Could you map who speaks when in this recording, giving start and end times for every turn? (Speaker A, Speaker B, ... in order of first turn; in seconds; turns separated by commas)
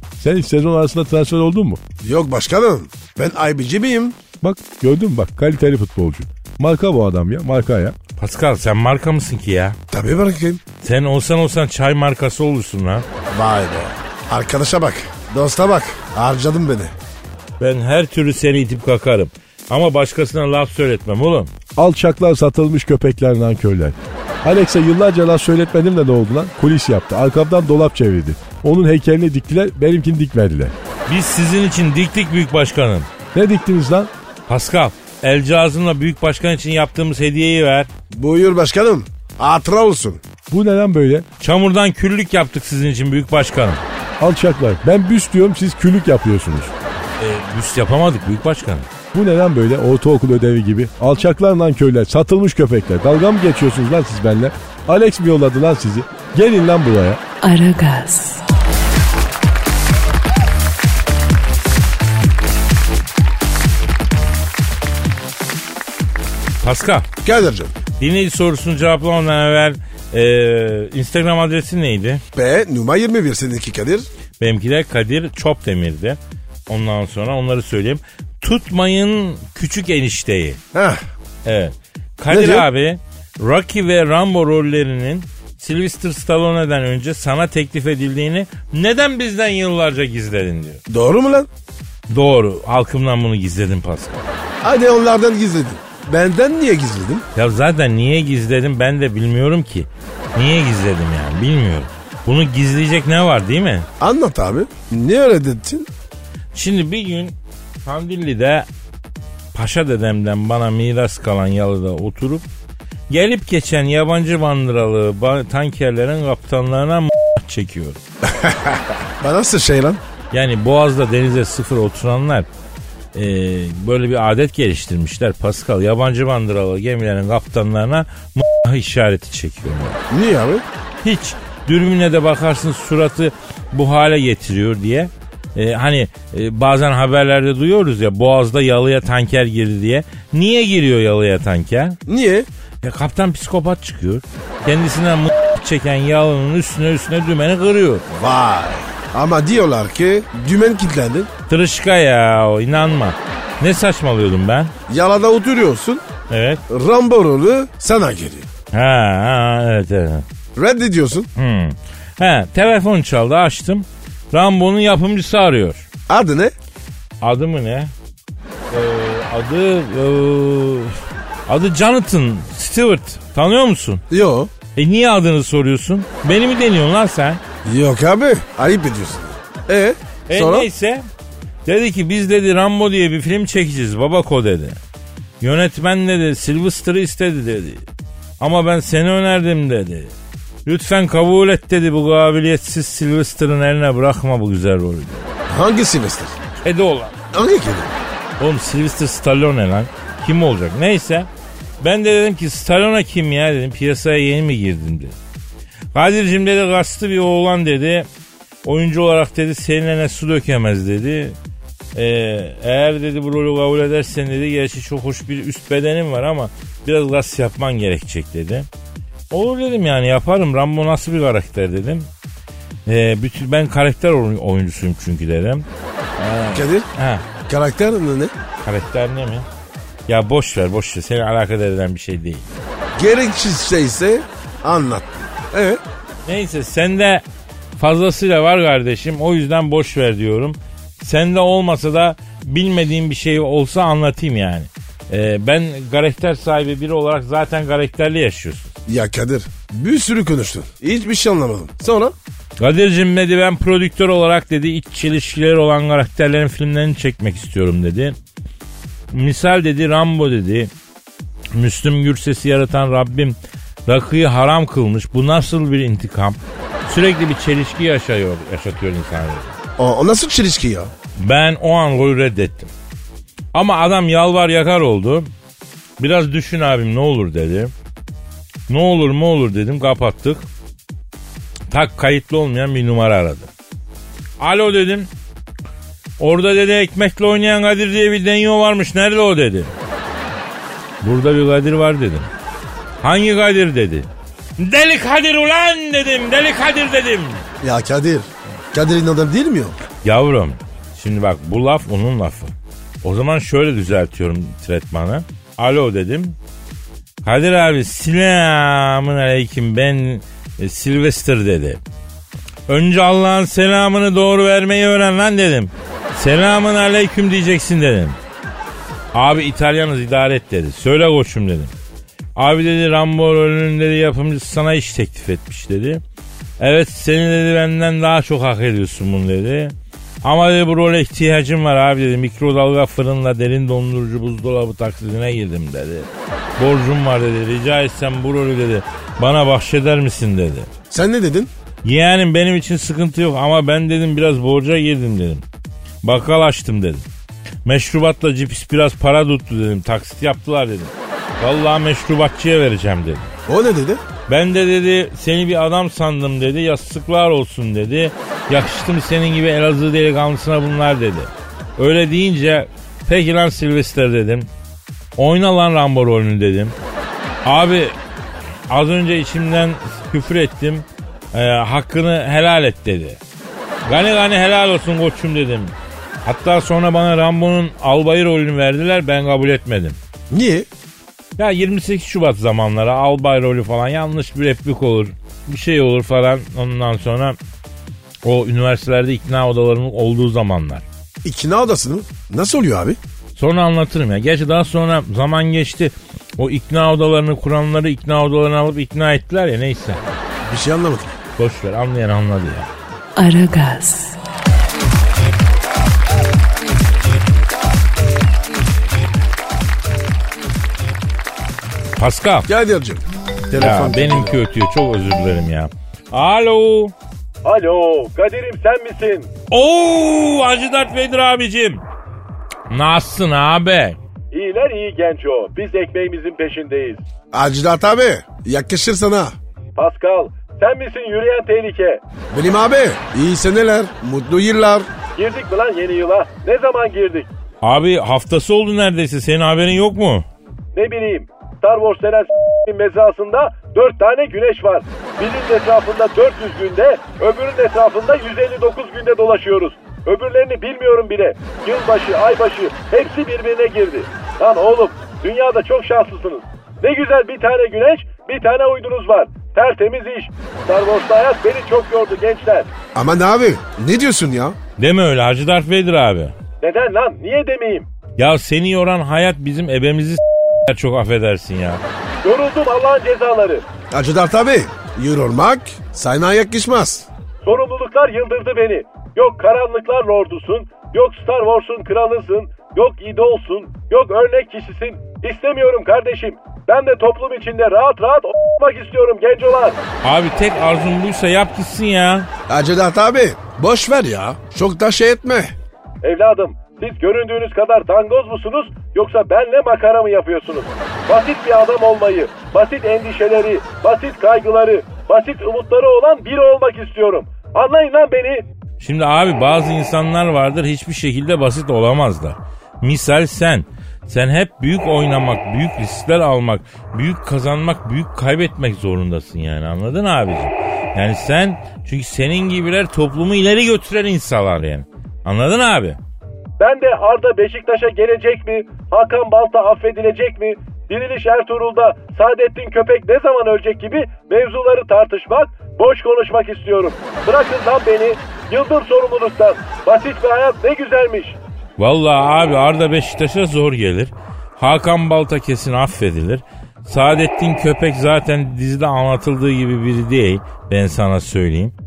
Speaker A: 0.2-1.8, Speaker B: 2.0-4.2, Speaker A: 4.4-8.0, Speaker C: 8.2-9.8, Speaker B: 9.9-10.6, Speaker C: 10.8-13.1, Speaker B: 13.3-16.9, Speaker C: 17.6-21.5, Speaker A: 21.8-30.7, Speaker C: 31.1-33.1, Speaker A: 33.3-34.1, Speaker C: 34.5-37.9, Speaker B: 38.1-40.2, Speaker A: 40.5-41.3, Speaker C: 41.4-43.8, Speaker A: 44.2-46.8, Speaker C: 47.2-48.9, Speaker A: 49.1-57.2, Speaker D: 57.4-58.4, Speaker C: 66.6-67.1, Speaker B: 67.2-67.7, Speaker C: 68.0-72.2, Speaker B: 72.3-74.1, Speaker C: 74.4-80.6, Speaker B: 80.7-81.0, Speaker C: 81.5-90.8, Speaker B: 82.3-82.7, Speaker B: 90.9-91.5, Speaker C: 92.1-94.2, Speaker B: 94.6-97.3, Speaker C: 97.4-103.9, Speaker B: 104.0-105.9, Speaker C: 106.5-107.3, Speaker C: 107.8-108.7, Speaker C: 109.5-112.4, Speaker C: 113.1-118.0, Speaker B: 118.3-120.0, Speaker C: 120.3-122.5, Speaker C: 123.1-130.0, Speaker B: 130.1-130.7, Speaker C: 131.0-142.0, Speaker B: 142.1-142.5, Speaker C: 142.8-148.1, Speaker B: 148.1-151.3, Speaker C: 151.5-154.7, Speaker B: 154.9-156.0, Speaker C: 156.3-156.6, Speaker B: 156.7-158.5, Speaker C: 158.7-160.2, Speaker B: 160.6-161.3, Speaker C: 161.4-165.9, Speaker B: 166.1-166.5, Speaker C: 167.2-167.9, Speaker C: 168.7-174.0, Speaker B: 174.1-174.5, Speaker C: 174.8-177.4, Speaker B: 177.7-180.7, Speaker C: 180.3-181.1, Speaker C: 181.7-184.8, Speaker C: 185.4-187.8, Speaker C: 188.4-190.1, Speaker C: 190.7-195.3, Speaker B: 195.5-196.4, Speaker C: 196.6-197.2, Speaker B: 197.3-197.9, Speaker C: 198.4-201.3, Speaker C: 201.8-205.1, Speaker C: 205.9-208.1, Speaker C: 208.6-211.4, Speaker C: 211.9-218.7, Speaker C: 219.3-222.1, Speaker C: 222.9-225.7, Speaker C: 226.2-227.2, Speaker B: 226.5-226.9, Speaker B: 227.5-228.3, Speaker C: 228.6-229.5, Speaker C: 230.1-232.4, Speaker B: 233.0-235.8, Speaker C: 236.3-237.2, Speaker C: 237.8-248.7, Speaker B: 248.9-252.2, Speaker C: 252.6-258.2, Speaker C: 259.1-260.7, Speaker C: 261.5-269.5, Speaker B: 269.8-270.9, Speaker C: 271.2-272.7, Speaker C: 273.5-275.3, Speaker C: 276.0-277.7, Speaker C: 278.7-280.4, Speaker C: 281.7-283.5, Speaker C: 284.4-285.1, Speaker C: 286.2-289.7, Speaker C: 291.0-292.3, Speaker C: 293.0-294.1, Speaker C: 294.6-297.4, Speaker B: 297.6-299.8, Speaker C: 300.0-306.4, Speaker C: 307.2-311.8, Speaker C: 312.7-318.2, Speaker C: 319.1-321.7, Speaker C: 322.4-326.0, Speaker C: 326.6-340.7, Speaker B: 340.9-341.5, Speaker C: 341.8-345.4, Speaker C: 346.0-347.1, Speaker C: 347.6-353.3, Speaker B: 353.5-354.0, Speaker C: 354.3-364.5, Speaker C: 365.2-366.8, Speaker C: 367.4-367.9, Speaker C: 368.7-373.2, Speaker C: 373.9-375.7, Speaker C: 376.2-380.0, Speaker B: 380.3-380.7, Speaker C: 381.4-387.4, Speaker C: 388.2-390.9, Speaker B: 391.2-393.0, Speaker C: 393.4-400.0, Speaker B: 400.5-401.1, Speaker C: 401.4-402.7, Speaker D: 403.2-404.2, Speaker C: 412.0-412.5, Speaker B: 412.5-414.4, Speaker C: 413.6-416.9, Speaker E: 417.4-419.3, Speaker C: 419.5-421.8, Speaker C: 422.7-424.0, Speaker E: 424.3-427.0, Speaker B: 427.3-429.4, Speaker E: 429.8-432.0, Speaker B: 432.3-434.9, Speaker E: 435.1-437.3, Speaker C: 437.6-440.3, Speaker E: 440.8-462.7, Speaker B: 462.9-464.6, Speaker C: 464.8-466.3, Speaker E: 466.6-467.9, Speaker C: 468.2-471.8, Speaker E: 472.2-473.6, Speaker B: 473.9-477.1, Speaker E: 477.4-489.8, Speaker C: 490.0-492.3, Speaker B: 492.5-495.5, Speaker E: 496.0-508.5, Speaker C: 508.8-526.0, Speaker E: 526.6-541.4, Speaker C: 541.8-551.7